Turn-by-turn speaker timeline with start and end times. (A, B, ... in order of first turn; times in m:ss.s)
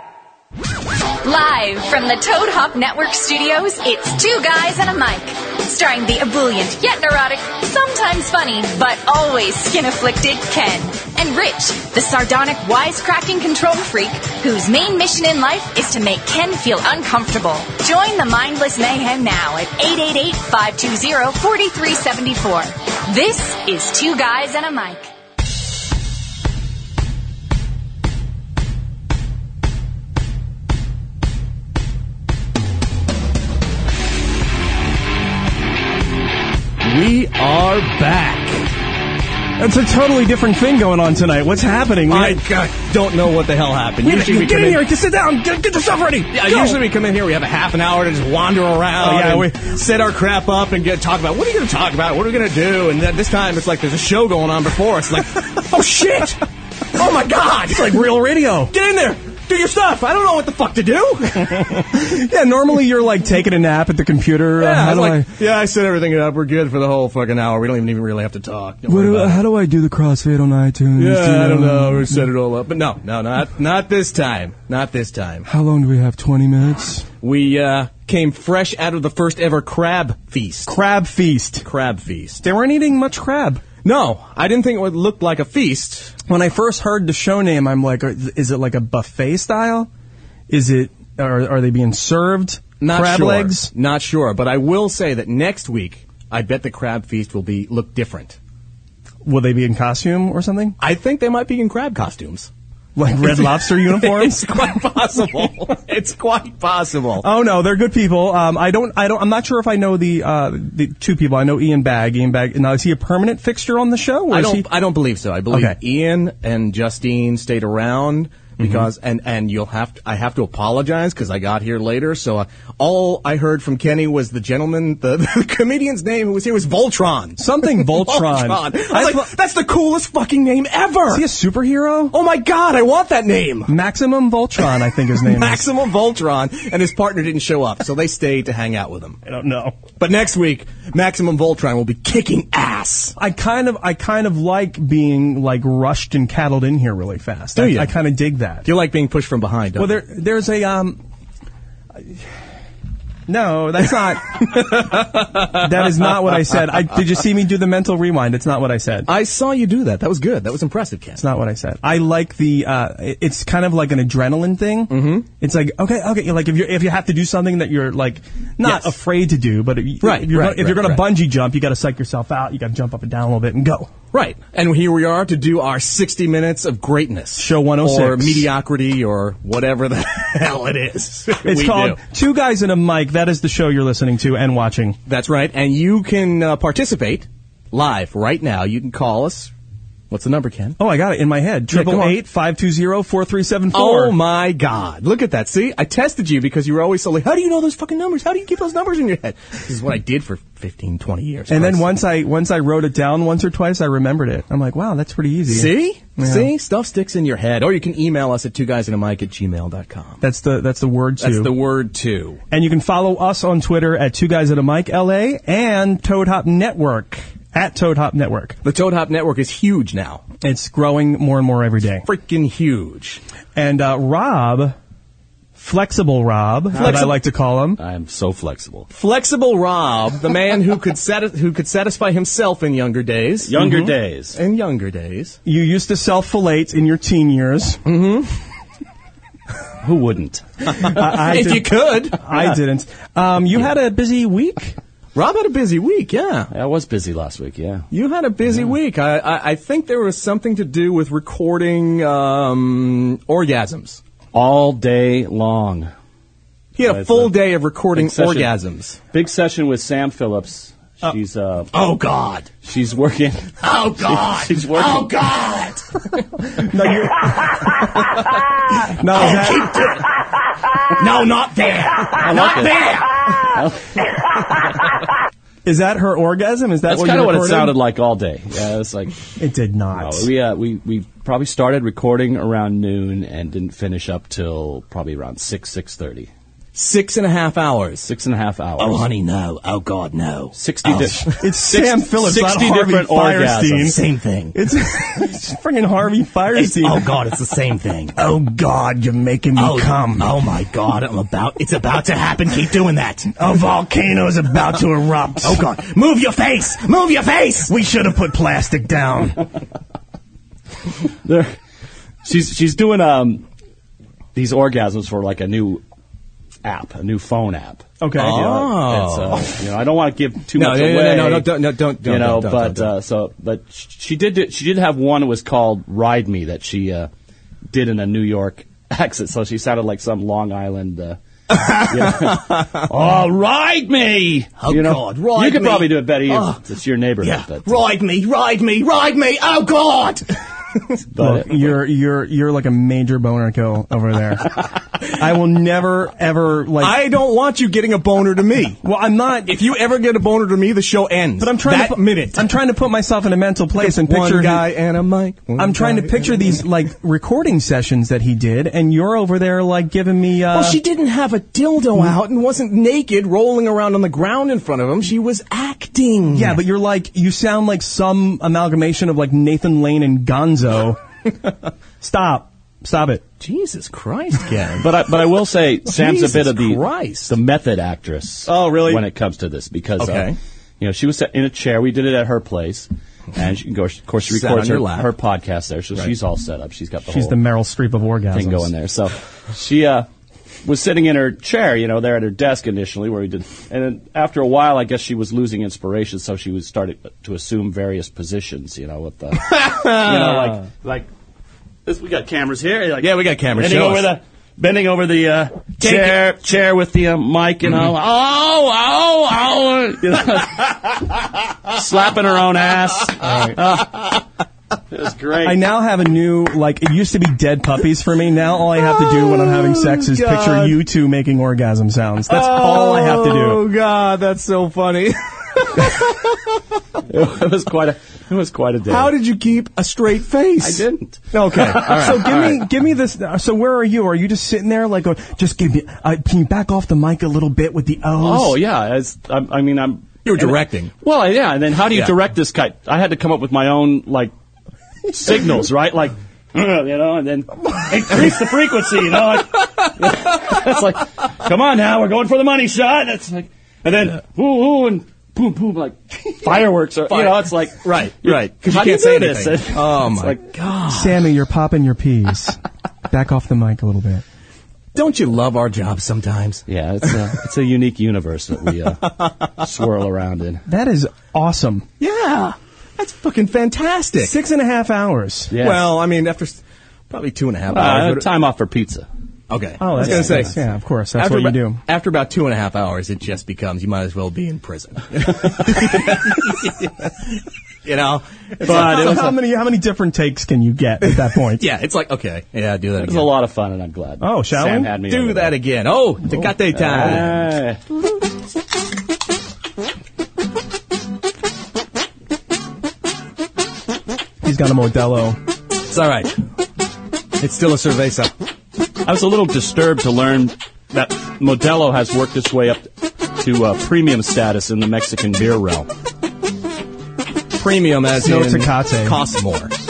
0:01.2-0:25.1 A
0:36.8-0:38.7 B
0:39.6-0:42.4 C
0:42.1-0:44.8 B
0:44.0-0:46.8 C
0:46.3-0:56.4 B
0:49.0-0:49.6 C
0:56.9-1:01.8 B
0:57.7-0:58.7 C
1:01.8-1:05.3 C
1:04.6-1:09.4 B
1:08.9-1:12.3 C
1:10.9-1:15.5 B
1:15.5-1:17.1 C
1:17.2-1:20.7 B
1:20.7-1:21.6 C
1:21.6-1:22.4 B
1:22.4-1:23.6 C
1:23.8-1:26.2 B
1:26.3-1:29.9 C
1:30.5-1:33.7 C
1:32.8-1:38.4 B
1:39.2-1:40.8 C
1:40.8-1:42.5 B
1:43.0-1:44.8 C
1:43.2-1:47.3 B
1:47.2-1:54.7 C
1:54.3-2:11.3 B
1:55.5-1:55.8 C
2:07.4-2:09.3 C
2:11.1-2:12.1 C
2:12.1-2:13.7 B
2:13.7-2:15.7 C
2:14.6-2:19.2 B
2:19.2-2:19.8 C
2:19.9-2:23.2 B
2:23.2-2:28.7 C
2:27.5-2:27.9 B
2:28.6-2:30.0 B
2:29.8-2:31.0 C
2:33.3-2:39.1 C
2:39.0-2:41.2 B
2:41.2-2:53.9 C
2:44.9-2:45.2 B
2:48.6-2:48.9 B
2:50.0-2:51.1 B
2:54.1-3:02.0 B
2:57.4-2:58.5 C
3:01.4-3:05.0 C
3:05.0-3:09.5 B
3:10.1-3:10.8 B
3:10.8-3:14.2 C
3:11.7-3:12.2 B
3:13.7-3:22.0 B
3:21.5-3:26.5 C
3:25.4-3:30.2 B
3:30.2-3:31.6 C
3:31.2-3:32.4 B
3:32.5-3:38.6 C
3:38.6-3:40.2 B
3:40.4-3:42.1 C
3:42.0-3:43.2 B
3:43.5-3:44.8 C
3:45.6-3:47.8 C
3:46.7-3:47.2 D
3:46.8-3:47.1 B
3:47.8-3:48.9 D
3:48.9-3:53.6 B
3:53.4-3:54.4 D
3:53.6-3:53.9 C
3:54.3-3:55.4 B
3:55.4-3:57.8 C
3:57.8-3:58.3 B
3:59.8-4:01.0 D
4:00.7-4:04.8 C
4:01.0-4:02.2 B
4:05.1-4:06.5 B
4:06.5-4:07.8 D
4:07.9-4:14.0 B
4:14.3-4:15.9 D
4:16.8-4:19.0 B
4:16.8-4:18.5 D
4:19.1-4:21.8 D
4:21.7-4:22.5 B
4:22.5-4:25.5 D
4:23.6-4:25.8 B
4:26.5-4:27.6 C
4:29.0-4:29.7 C
4:29.1-4:30.1 B
4:30.9-4:33.1 B
4:32.1-4:33.8 D
4:35.6-4:37.8 C
4:36.9-4:39.2 D
4:39.4-4:40.3 C
4:40.0-4:46.3 D
4:46.7-4:48.1 B
4:48.0-4:49.0 D
4:48.8-4:51.2 B
4:50.5-4:54.0 D
4:51.3-4:54.0 C
4:53.8-4:54.6 B
4:54.5-4:57.1 C
4:56.5-4:58.2 B
4:58.2-5:00.3 C
4:59.6-5:03.4 B
5:03.4-5:05.6 C
5:05.4-5:07.7 B
5:07.7-5:09.4 C
5:11.2-5:11.5 D
5:12.2-5:13.4 D
5:14.3-5:15.8 D
5:16.6-5:27.1 D
5:18.0-5:18.6 C
5:18.2-5:19.6 B
5:20.5-5:22.9 B
5:27.7-5:37.8 D
5:31.9-5:32.8 B
5:34.6-5:36.6 B
5:37.2-5:41.0 B
5:41.1-5:41.7 D
5:41.2-5:47.0 C
5:46.8-5:48.8 B
5:48.8-5:49.5 C
5:49.4-5:52.5 B
5:51.4-5:54.7 C
5:53.8-5:56.6 B
5:55.6-6:00.8 C
6:00.5-6:06.6 B
6:06.3-6:11.0 C
6:12.0-6:13.2 C
6:13.4-6:14.9 B
6:14.8-6:27.4 D
6:15.8-6:17.3 B
6:18.5-6:19.0 B
6:20.0-6:20.4 B
6:24.2-6:25.1 B
6:27.1-6:28.7 C
6:28.3-6:30.0 D
6:30.6-6:41.1 D
6:39.4-6:40.6 B
6:41.8-6:54.2 D
6:43.0-6:44.1 B
6:45.8-6:46.2 B
6:53.2-6:53.6 C
6:54.9-6:55.6 D
6:55.4-7:03.7 C
6:58.9-7:00.8 B
7:02.3-7:06.6 B
7:07.1-7:09.1 D
7:08.9-7:12.6 B
7:10.6-7:11.2 D
7:11.8-7:18.6 C
7:18.2-7:24.3 D
7:20.2-7:20.9 B
7:25.1-7:41.1 D
7:37.1-7:40.9 B
7:40.9-7:44.2 C
7:44.9-7:47.1 B
7:46.7-7:50.6 D
7:50.7-7:51.8 C
7:52.0-7:54.4 B
7:54.2-7:55.5 C
7:55.5-7:55.9 D
7:55.6-7:58.3 B
7:57.7-7:59.1 D
7:59.5-8:00.5 B
7:59.8-8:01.8 C
8:00.0-8:00.5 D
8:01.2-8:06.8 B
8:07.8-8:09.3 B
8:08.6-8:09.4 D
8:08.6-8:11.6 C
8:11.0-8:13.3 B
8:13.0-8:15.6 D
8:14.2-8:14.9 C
8:15.0-8:17.5 B
8:16.7-8:17.8 D
8:24.4-8:25.4 C
8:25.9-8:26.4 B
8:27.4-8:28.3 B
8:29.0-8:35.9 D
8:37.5-8:39.7 B
8:38.2-8:39.2 C